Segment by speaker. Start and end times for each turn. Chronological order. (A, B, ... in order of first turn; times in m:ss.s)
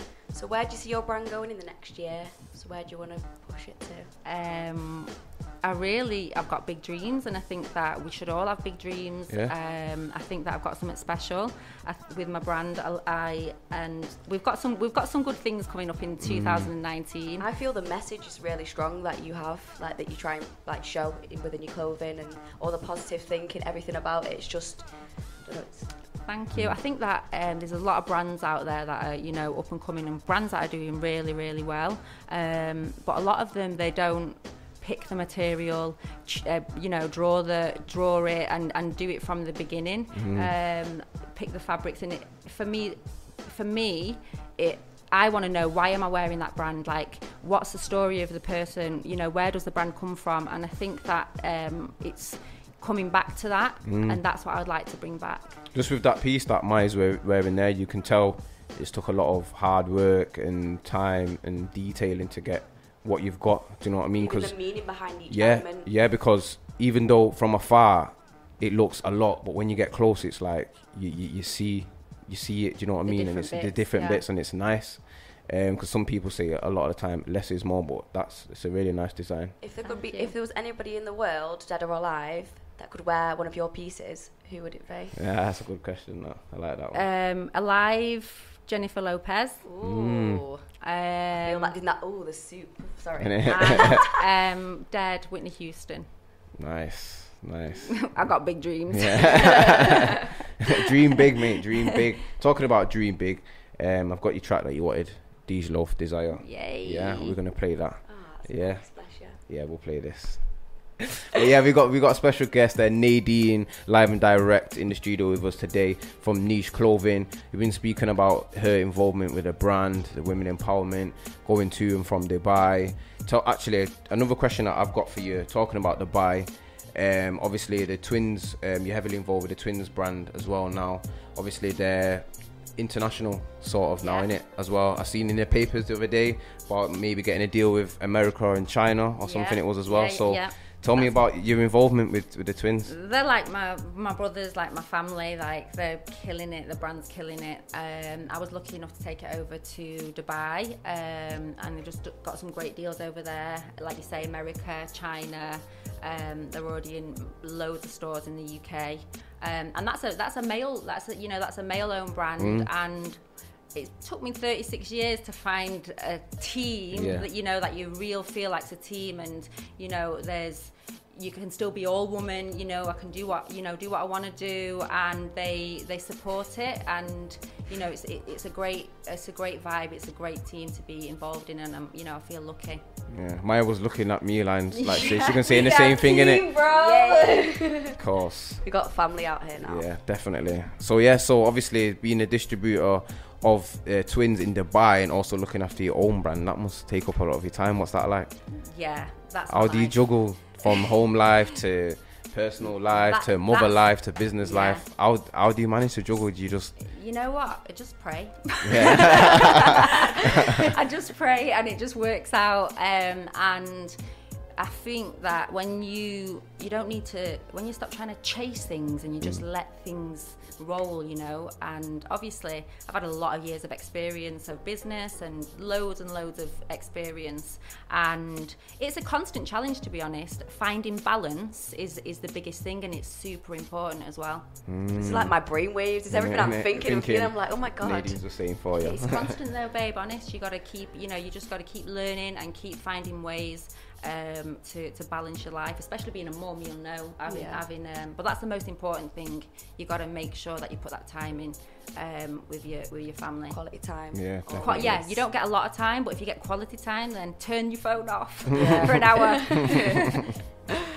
0:00.3-0:04.1 A
0:04.2-0:17.5 B
0:09.3-0:09.5 C
0:16.2-0:16.7 C
0:17.4-0:25.9 A
0:26.2-0:55.6 B
0:26.5-0:26.8 C
0:40.1-0:40.5 C
0:53.8-0:54.2 C
0:55.7-1:19.6 C
1:04.2-1:05.9 A
1:13.0-1:14.3 B
1:19.6-1:25.2 A
1:19.8-1:20.4 B
1:25.1-1:27.1 C
1:26.9-1:29.7 B
1:29.6-1:30.7 A
1:29.8-1:30.4 C
1:30.8-1:31.8 B
1:31.4-1:34.1 A
1:33.2-1:34.0 C
1:33.5-1:36.1 B
1:36.6-1:38.2 C
1:38.0-1:40.1 B
1:38.9-2:23.0 C
1:46.4-1:47.4 B
1:48.1-1:49.4 A
2:14.0-2:14.3 B
2:19.2-2:21.1 B
2:22.9-2:43.2 B
2:42.4-2:42.7 C
2:43.7-3:02.8 B
2:46.9-2:47.3 C
3:03.1-3:06.5 C
3:04.7-3:07.7 B
3:06.6-3:08.0 A
3:08.0-3:08.6 C
3:08.6-3:09.9 A
3:09.6-3:18.4 C
3:18.5-3:20.9 B
3:19.5-3:26.7 C
3:22.9-3:24.8 B
3:26.8-3:34.0 B
3:28.6-3:29.7 C
3:34.6-3:54.5 B
3:54.7-3:55.4 C
3:54.9-3:58.2 A
3:56.1-3:59.4 C
3:58.7-4:13.6 B
4:07.3-4:07.6 A
4:13.5-4:15.2 A
4:14.1-4:15.0 C
4:14.6-4:20.2 B
4:18.6-4:19.8 A
4:18.6-4:18.9 C